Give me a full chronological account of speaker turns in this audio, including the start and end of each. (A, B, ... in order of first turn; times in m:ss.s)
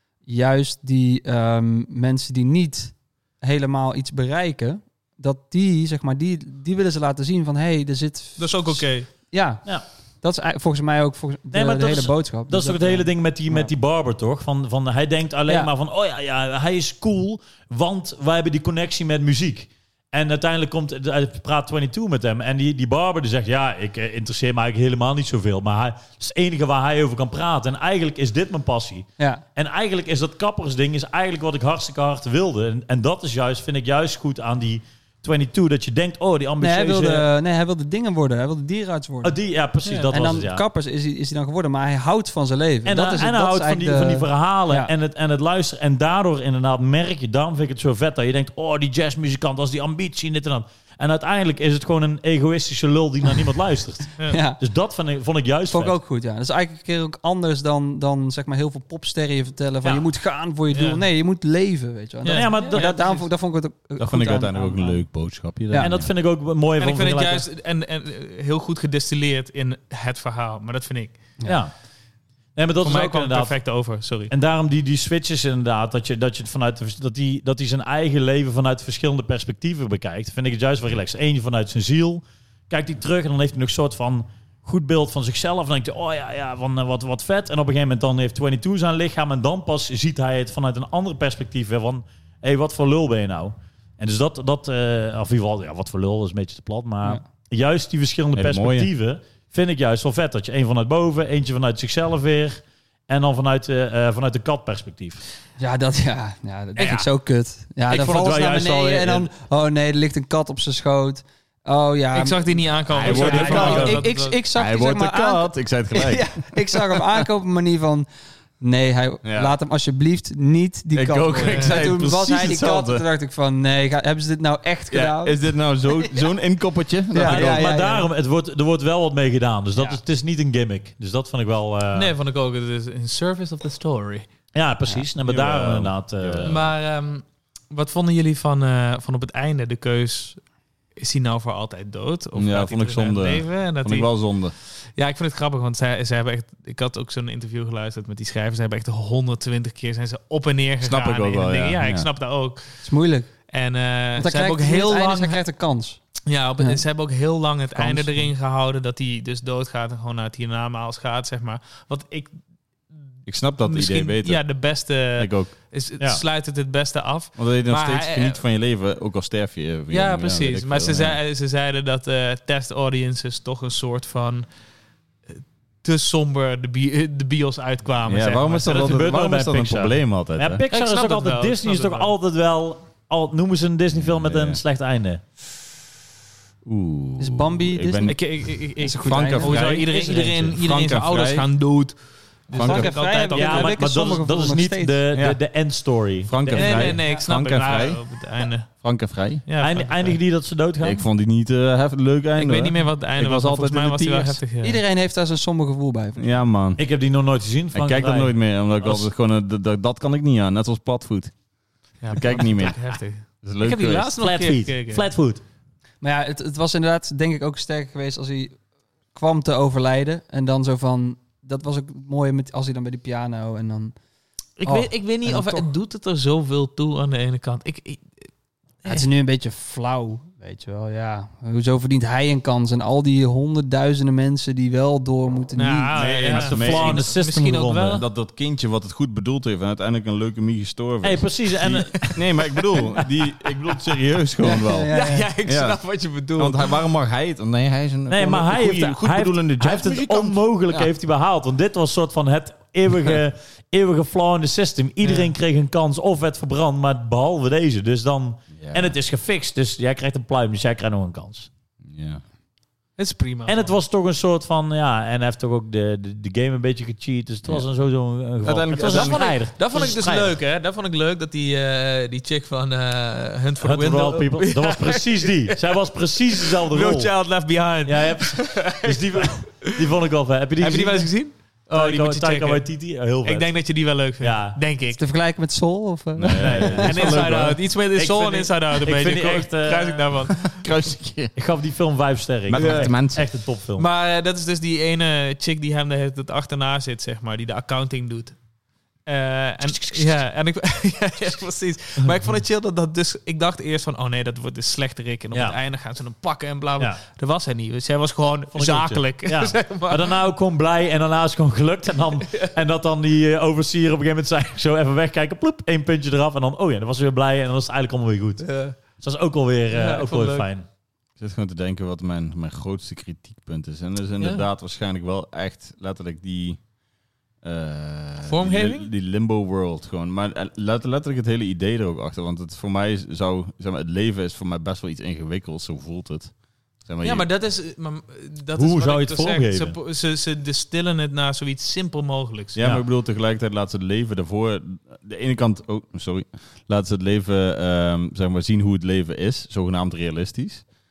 0:00.3-0:13.7 A
0:08.4-0:09.1 B
0:11.5-0:37.3 C
0:36.6-0:39.4 A
0:39.2-0:40.6 C
0:40.1-0:44.9 A
0:42.8-0:56.0 C
0:54.3-0:54.6 A
0:55.7-1:05.0 A
1:00.7-1:01.0 B
1:02.2-1:03.2 B
1:02.3-1:03.1 C
1:04.0-1:06.1 D
1:05.8-1:07.4 C
1:06.8-1:11.2 B
1:11.4-1:11.7 C
1:12.5-1:13.6 C
1:12.8-1:14.3 B
1:14.3-1:45.2 C
1:38.4-1:38.9 D
1:45.6-1:58.0 A
1:46.8-1:47.1 C
1:47.9-1:49.3 C
1:52.1-1:54.4 B
1:53.0-1:54.0 D
1:53.0-1:54.0 C
1:54.5-1:56.5 D
1:58.6-2:05.4 A
1:59.2-1:59.6 D
2:00.9-2:03.0 D
2:01.4-2:01.9 B
2:04.9-2:07.7 D
2:07.1-2:08.1 A
2:07.2-2:12.1 C
2:11.9-2:14.3 B
2:14.5-2:16.6 C
2:15.2-2:16.7 D
2:16.4-2:20.4 B
2:21.0-2:24.1 B
2:22.3-2:24.5 D
2:24.9-2:32.8 B
2:30.8-2:32.1 D
2:32.8-2:33.3 A
2:33.5-2:35.4 B
2:34.2-2:36.0 A
2:36.2-2:42.3 B
2:37.7-2:38.3 A
2:43.2-2:44.5 D
2:43.6-2:48.4 B
2:45.1-2:45.5 D
2:47.4-2:51.2 D
2:49.9-2:54.5 B
2:55.4-2:59.0 B
2:58.0-3:00.6 D
2:58.6-3:05.2 C
3:00.7-3:02.1 B
3:03.9-3:04.6 D
3:06.6-3:08.2 D
3:07.2-3:08.2 A
3:08.0-3:12.0 B
3:08.8-3:09.6 A
3:09.0-3:09.9 D
3:09.8-3:10.5 C
3:10.4-3:11.4 D
3:12.5-3:13.8 B
3:12.5-3:12.9 D
3:12.6-3:15.0 A
3:13.3-3:17.0 C
3:15.1-3:15.4 D
3:16.2-3:18.0 D
3:16.5-3:18.7 B
3:18.8-3:19.4 D
3:19.4-3:20.2 B
3:19.6-3:21.0 C
3:20.8-3:24.4 D
3:22.4-3:24.8 B
3:24.6-3:26.3 A
3:26.2-3:26.8 D
3:26.8-3:29.1 C
3:27.7-3:31.3 D
3:32.0-3:35.0 B
3:32.1-3:32.8 D
3:33.4-3:34.1 D
3:34.2-3:35.4 C
3:36.0-3:38.6 A
3:39.1-3:43.9 A
3:44.6-3:48.3 B
3:44.6-3:45.7 A
3:48.8-3:56.0 A
3:55.6-3:58.0 B
3:55.9-3:57.1 D
3:56.3-3:58.0 C
3:57.9-4:04.9 D
4:01.0-4:02.1 C
4:01.8-4:03.0 B
4:04.4-4:05.3 A
4:04.9-4:06.8 B
4:05.4-4:05.8 D
4:06.4-4:10.9 D
4:08.1-4:21.5 C
4:15.0-4:15.3 B
4:18.6-4:18.9 D
4:21.8-4:22.2 D
4:23.0-4:23.8 B
4:23.5-4:30.3 C
4:28.4-4:29.3 D
4:28.8-4:35.6 B
4:33.6-4:37.2 C
4:36.4-4:39.7 B
4:37.8-4:41.2 C
4:40.6-4:45.0 B
4:41.7-4:43.6 C
4:44.2-4:44.6 C
4:44.9-4:46.9 A
4:46.2-4:47.5 D
4:46.3-4:50.1 C
4:46.8-4:50.6 B
4:50.4-4:51.3 D
4:51.3-4:53.9 C
4:52.5-4:53.2 D
4:52.5-4:52.9 B
4:53.8-4:58.4 B
4:59.0-5:10.2 B
4:59.7-5:00.2 C
5:08.5-5:20.6 C
5:18.4-5:18.8 B
5:19.7-5:20.5 B
5:21.2-5:26.6 D
5:27.4-5:36.3 D
5:28.2-5:28.9 B
5:36.8-5:37.3 D
5:37.0-5:42.6 B
5:38.6-5:39.8 C
5:42.5-5:50.6 D